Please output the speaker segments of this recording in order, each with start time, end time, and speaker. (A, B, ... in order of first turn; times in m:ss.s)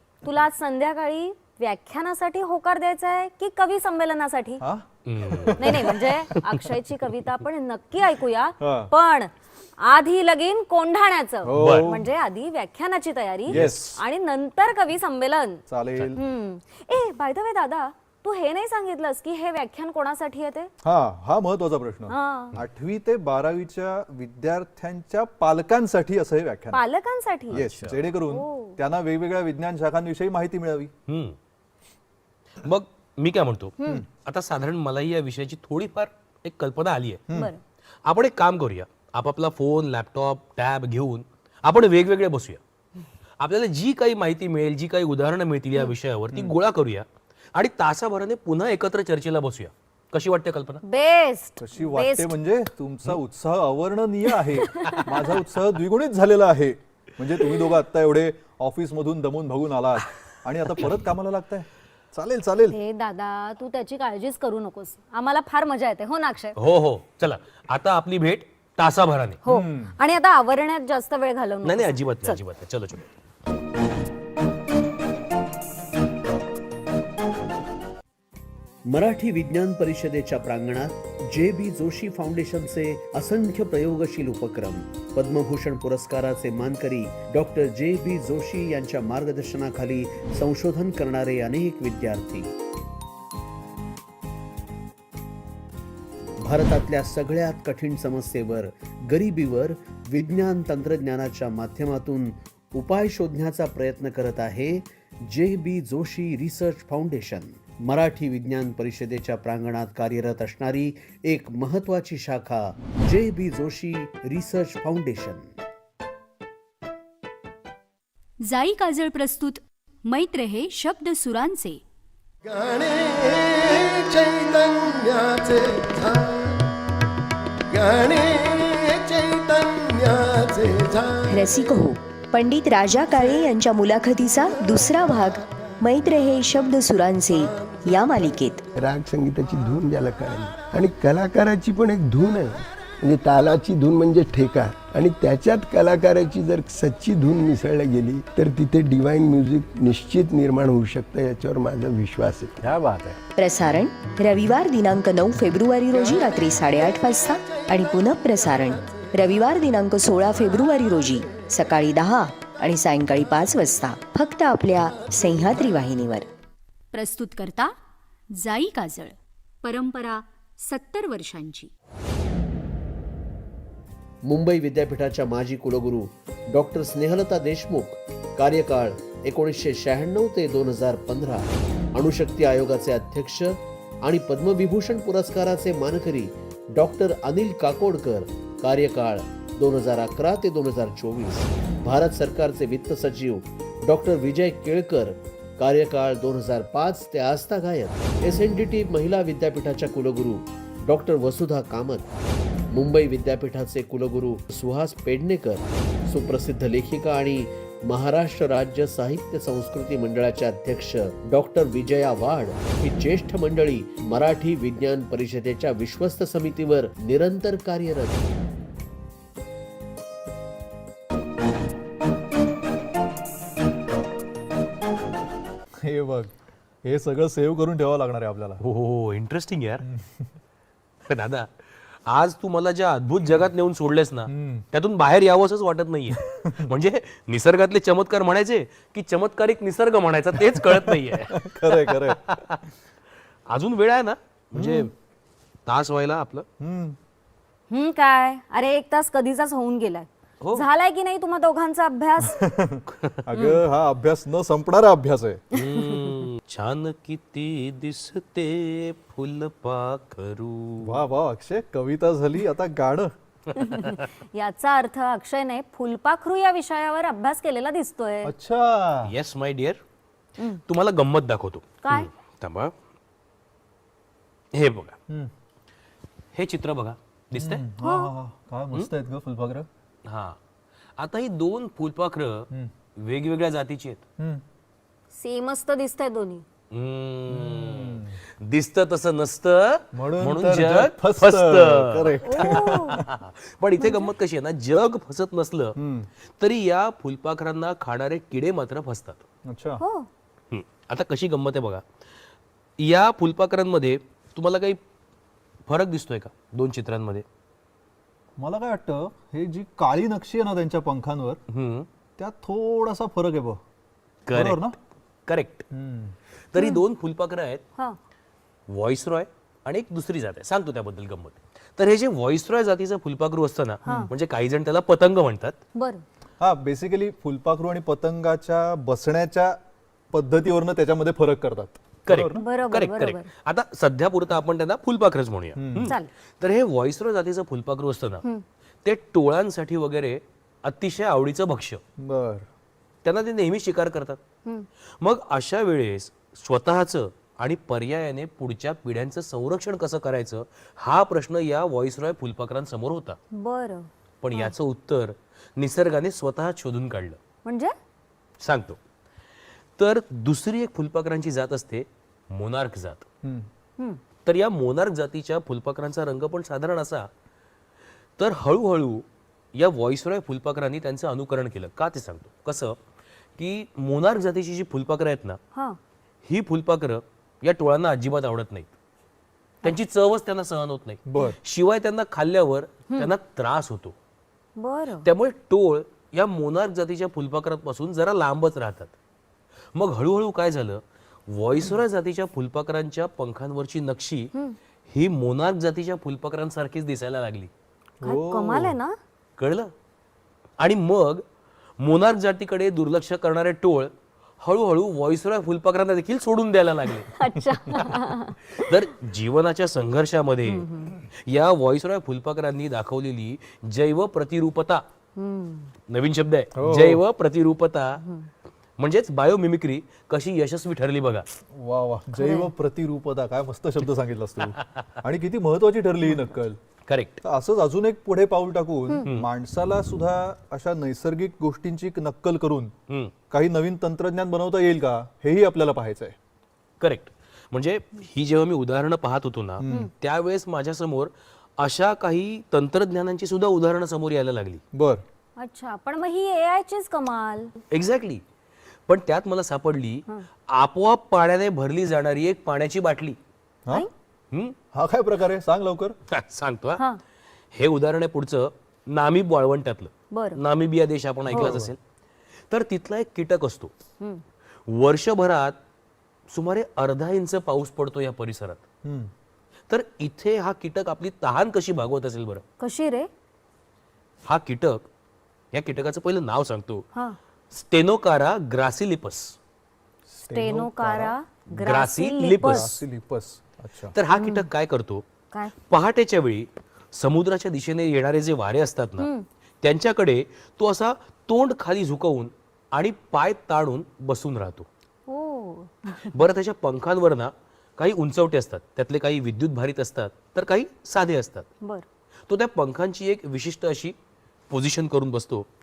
0:00.2-0:04.6 A
0:04.6-0:06.0 B
0:05.0-0:06.4 C
0:05.6-0:15.6 A
0:08.6-0:08.9 B
0:11.4-0:12.1 B
0:11.5-0:11.9 C
0:13.5-0:14.0 B
0:13.5-0:13.8 C
0:15.7-0:16.2 B
0:16.2-0:20.7 A
0:20.8-0:26.8 B
0:22.1-0:22.5 A
0:26.7-0:27.6 A
0:27.5-0:30.9 B
0:27.5-0:28.0 C
0:28.3-0:28.8 A
0:31.1-0:31.4 C
0:32.6-0:37.2 C
0:37.3-0:37.6 A
0:38.0-0:42.6 C
0:43.4-0:50.8 C
0:50.8-0:52.3 A
0:51.6-1:02.8 B
0:54.7-0:55.0 A
1:02.7-1:06.5 A
1:06.6-1:09.4 C
1:09.4-1:12.4 A
1:09.5-1:09.9 B
1:11.6-1:13.0 C
1:18.9-1:32.5 D
1:36.4-1:55.5 D
1:58.5-2:01.8 E
2:02.4-2:06.7 F
2:07.7-2:11.2 F
2:11.3-2:18.6 G
2:18.8-2:33.2 F
2:33.4-2:46.3 G
2:46.9-2:47.7 E
2:48.4-2:51.7 E
2:54.3-3:22.1 D
3:22.7-3:38.3 D
3:45.8-3:46.3 B
3:46.8-3:48.6 B
3:48.6-3:49.8 C
3:49.8-3:50.3 B
3:51.1-3:51.5 C
3:52.1-4:02.6 C
3:54.3-3:54.6 B
4:00.5-4:02.2 B
4:03.5-4:04.9 C
4:04.5-4:04.9 B
4:05.7-4:06.4 C
4:06.6-4:07.0 B
4:07.7-4:12.4 A
4:10.4-4:10.6 C
4:12.3-4:15.4 B
4:15.5-4:21.0 C
4:15.6-4:15.8 A
4:20.8-4:23.1 B
4:23.6-4:28.3 A
4:23.6-4:24.0 C
4:28.2-4:29.1 B
4:29.0-4:29.8 C
4:30.7-4:32.7 C
4:31.8-4:32.1 A
4:34.5-4:35.0 C
4:36.3-4:37.6 C
4:37.3-4:39.7 B
4:37.8-4:38.1 A
4:40.0-4:40.4 C
4:41.0-4:42.5 C
4:43.0-4:44.0 C
4:44.2-4:44.4 B
4:45.2-4:46.4 A
4:46.7-4:55.8 C
4:47.3-4:48.2 B
4:49.9-4:53.1 B
4:52.3-4:53.0 A
4:53.8-4:54.1 A
4:55.8-4:56.1 B
4:56.4-4:59.2 C
4:59.4-4:59.8 B
4:59.8-5:00.1 A
5:00.5-5:01.8 C
5:02.8-5:04.8 C
5:05.7-5:07.2 C
5:08.4-5:11.4 B
5:11.5-5:11.9 C
5:12.2-5:13.6 B
5:14.3-5:14.7 C
5:14.3-5:14.7 B
5:15.3-5:15.6 C
5:15.7-5:16.2 B
5:16.5-5:17.6 C
5:18.7-5:25.6 C
5:25.8-5:26.0 A
5:26.4-5:29.6 B
5:30.1-5:32.4 B
5:32.0-5:38.2 C
5:32.4-5:33.3 A
5:35.6-5:35.9 B
5:38.8-5:41.8 C
5:42.0-5:42.5 B
5:43.0-5:44.2 C
5:45.0-5:53.2 C
5:53.3-5:54.5 A
5:54.2-5:57.2 C
5:57.4-5:57.7 A
5:58.4-5:58.8 C
5:59.8-6:03.0 C
6:03.2-6:03.5 B
6:04.2-6:07.1 C
6:08.2-6:12.8 C
6:13.4-6:15.4 C
6:16.2-6:18.7 C
6:19.6-6:23.9 C
6:21.1-6:21.4 B
6:24.6-6:25.0 A
6:25.0-6:28.9 C
6:29.7-6:34.3 C
6:34.9-6:37.5 C
6:38.0-6:38.8 B
6:38.0-6:38.9 A
6:39.4-6:39.7 C
6:40.6-6:41.2 C
6:41.8-6:43.9 C
6:44.4-6:47.1 C
6:47.2-6:48.7 A
6:48.5-6:54.8 C
6:50.5-6:50.9 A
6:55.2-6:55.7 A
6:55.9-6:58.0 C
6:56.6-6:57.0 B
6:58.8-7:01.2 C
7:01.5-7:06.6 B
7:02.2-7:02.5 A
7:06.9-7:07.2 C
7:07.2-7:12.7 B
7:13.3-7:16.2 B
7:16.8-7:24.6 C
7:19.6-7:19.9 B
7:24.7-7:25.0 B
7:25.4-7:27.5 A
7:27.7-7:28.2 C
7:28.9-7:33.2 C
7:34.7-7:36.0 B
7:36.1-7:36.8 C
7:37.5-7:41.8 C
7:40.1-7:40.4 A
7:41.3-7:41.7 B
7:42.5-7:43.7 C
7:44.7-7:45.6 C
7:46.3-7:48.6 C
7:48.8-7:49.1 B
7:49.7-7:52.4 C
7:52.6-7:53.1 A
7:54.2-7:54.8 C
7:55.5-7:56.8 C
7:57.5-7:59.3 C
8:00.1-8:01.1 B
8:00.3-8:02.7 A
8:01.5-8:02.8 C
8:02.4-8:03.9 B
8:03.9-8:05.0 C
8:04.2-8:04.4 A
8:05.6-8:09.1 C
8:09.0-8:09.2 A
8:09.6-8:14.7 C
8:15.1-8:16.1 A
8:16.1-8:21.5 C
8:22.3-8:23.9 C
8:24.5-8:25.4 C